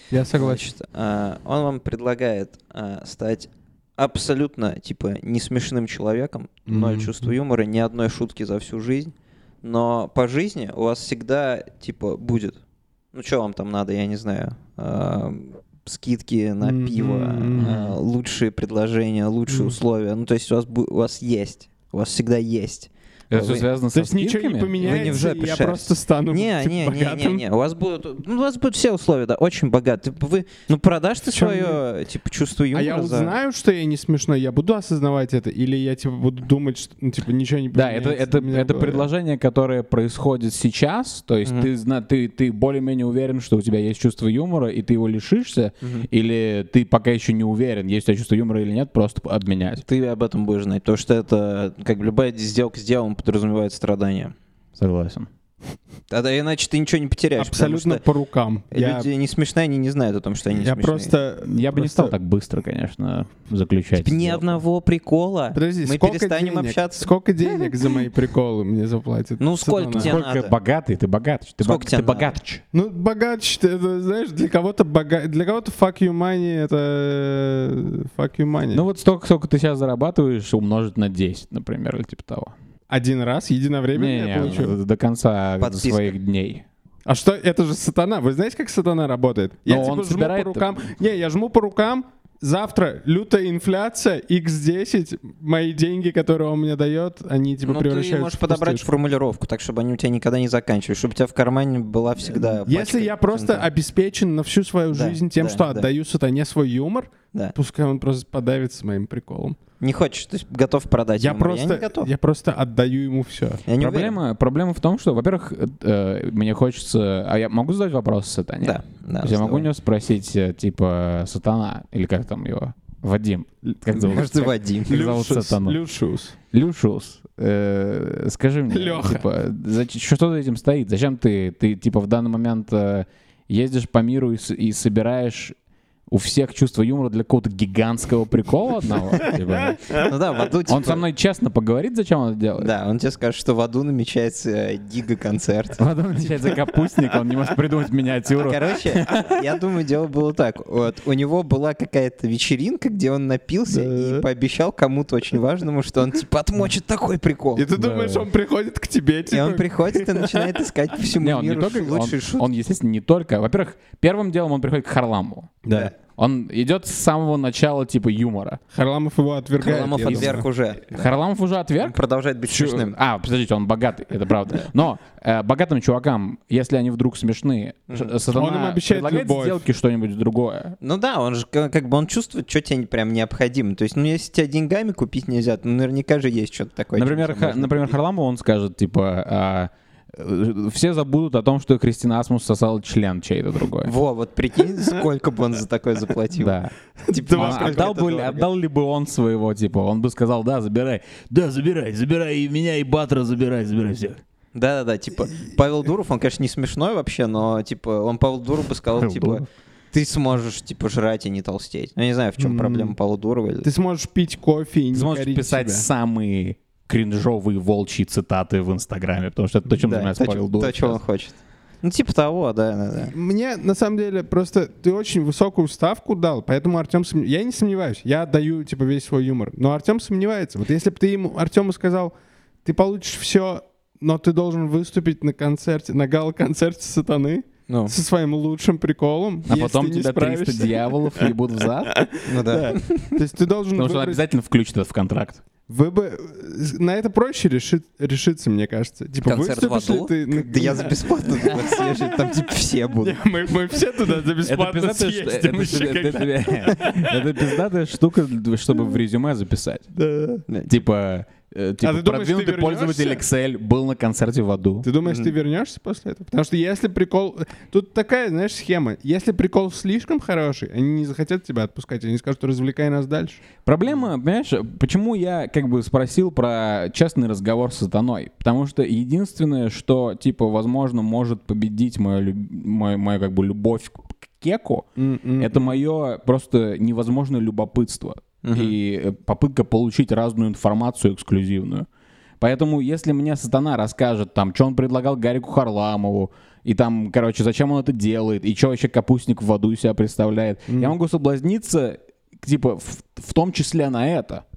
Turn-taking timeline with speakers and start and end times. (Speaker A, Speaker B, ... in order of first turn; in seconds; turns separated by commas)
Speaker A: 0.1-0.7, Speaker B: 0.3-12.6, Speaker A: 6.7-7.3, Speaker B: 13.1-23.6, Speaker A: 16.6-17.7, Speaker C: 17.6-17.9, Speaker A: 19.5-19.8, Speaker C: 23.3-25.2, Speaker A: 23.9-27.4, Speaker B: 24.8-33.4, Speaker A: 31.2-31.8, Speaker A: 32.7-39.1, Speaker C: 37.7-49.8, Speaker B: 45.8-46.1, Speaker B: 49.8-54.3, Speaker C: 54.8-55.3, Speaker B: 56.1-58.0, Speaker A: 57.4-59.1, Speaker B: 58.7-61.1, Speaker A: 60.5-62.1, Speaker C: 61.4-64.6, Speaker B: 64.0-67.7, Speaker A: 65.5-70.1, Speaker B: 69.4-70.5, Speaker C: 70.0-72.6, Speaker B: 71.6-72.3, Speaker A: 72.7-78.8, Speaker C: 78.7-82.5, Speaker A: 82.9-84.8, Speaker C: 83.9-86.6, Speaker B: 85.6-86.1, Speaker A: 87.0-98.9, Speaker C: 89.7-90.7, Speaker B: 97.7-103.7, Speaker A: 102.7-109.6, Speaker B: 104.9-105.9, Speaker B: 109.8-112.1, Speaker A: 111.2-113.6, Speaker B: 113.7-114.2, Speaker C: 113.8-125.8, Speaker B: 118.6-119.7, Speaker A: 123.6-124.3, Speaker B: 124.0-125.0, Speaker A: 124.9-126.3, Speaker C: 126.5-135.6, Speaker A: 128.7-129.2, Speaker C: 136.1-140.0, Speaker B: 139.9-141.0, Speaker C: 140.7-142.7, Speaker B: 142.6-146.5, Speaker C: 145.8-149.4, Speaker B: 148.4-157.7, Speaker A: 153.7-154.3, Speaker A: 157.6-160.6, Speaker C: 157.8-158.3, Speaker B: 159.3-162.4, Speaker C: 161.2-168.6, Speaker A: 165.6-165.9, Speaker A: 168.7-170.4, Speaker B: 169.6-171.1, Speaker C: 170.1-170.3, Speaker C: 170.9-172.0, Speaker B: 171.8-172.9, Speaker C: 172.5-180.8, Speaker A: 178.3-179.6, Speaker B: 180.8-188.0, Speaker C: 186.9-193.9, Speaker B: 193.8-198.5, Speaker C: 196.4-196.7, Speaker A: 197.1-198.1, Speaker C: 197.3-204.2, Speaker B: 204.5-213.7, Speaker C: 208.9-209.4, Speaker A: 212.4-212.9, Speaker A: 213.6-215.9, Speaker C: 214.9-221.0, Speaker B: 219.7-223.1, Speaker A: 223.1-232.1, Speaker A: 232.6-241.3, Speaker C: 239.5-241.9, Speaker A: 241.9-244.2, Speaker B: 242.2-243.2, Speaker C: 243.7-245.4, Speaker A: 245.7-257.5, Speaker B: 249.2-253.2, Speaker C: 254.4-259.9, Speaker A: 259.9-260.4, Speaker B: 260.5-260.8, Speaker C: 260.7-264.9, Speaker A: 261.8-263.2, Speaker A: 264.8-273.4, Speaker B: 265.0-265.3, Speaker C: 273.6-284.9, Speaker A: 285.0-285.7, Speaker C: 285.4-291.9, Speaker B: 288.4-288.8, Speaker C: 292.4-304.4, Speaker A: 300.7-300.9